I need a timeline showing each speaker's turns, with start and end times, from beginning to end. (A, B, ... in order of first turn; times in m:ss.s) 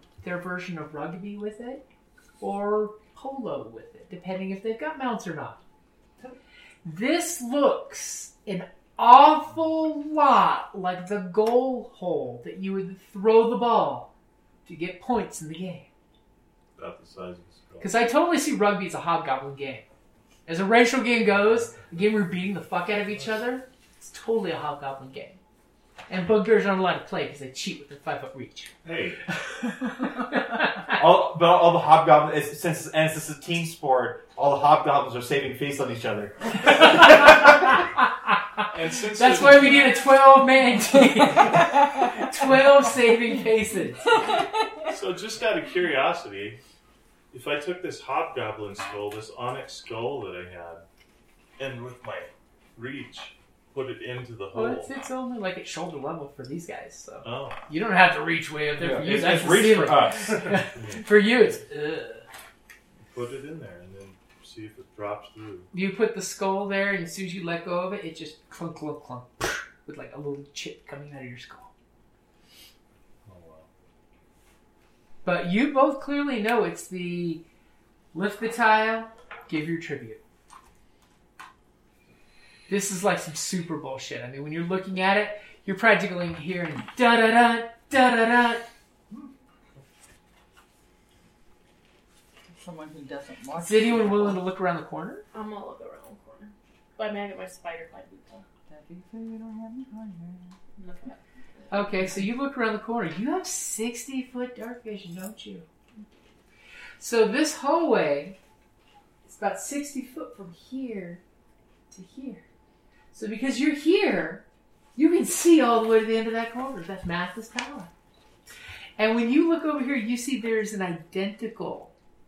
0:00.2-0:01.8 A
0:02.4-0:05.6 A
0:06.8-0:14.1 A
0:14.7-0:15.9 A
0:16.8-0:17.9 B
0:17.8-0:19.8 A
0:20.5-0:25.4 A
0:26.1-0:28.7 A
0:28.8-0:29.2 B
0:29.6-0:30.9 A
0:30.9-0:37.6 C
0:36.7-0:44.2 A
0:38.7-0:39.8 B
0:41.4-0:42.6 D
0:44.9-0:46.6 B
0:47.3-0:50.8 B
0:51.6-0:54.9 B
0:54.5-1:02.2 A
0:57.2-0:57.6 B
0:58.8-1:00.6 C
1:00.8-1:01.0 B
1:03.1-1:05.7 B
1:05.7-1:11.7 A
1:13.2-1:13.7 B
1:15.2-1:17.4 A
1:18.1-1:20.2 A
1:22.7-1:28.7 A
1:32.5-1:34.4 D
1:33.6-1:35.2 A
1:35.3-1:38.4 E
1:38.7-1:40.6 D
1:40.8-1:41.2 E
1:41.7-1:45.7 A
1:47.0-1:48.4 A
1:49.3-1:51.2 A
1:51.9-1:52.4 A
1:53.1-1:54.4 A
1:55.0-1:57.9 A
1:59.0-2:01.9 A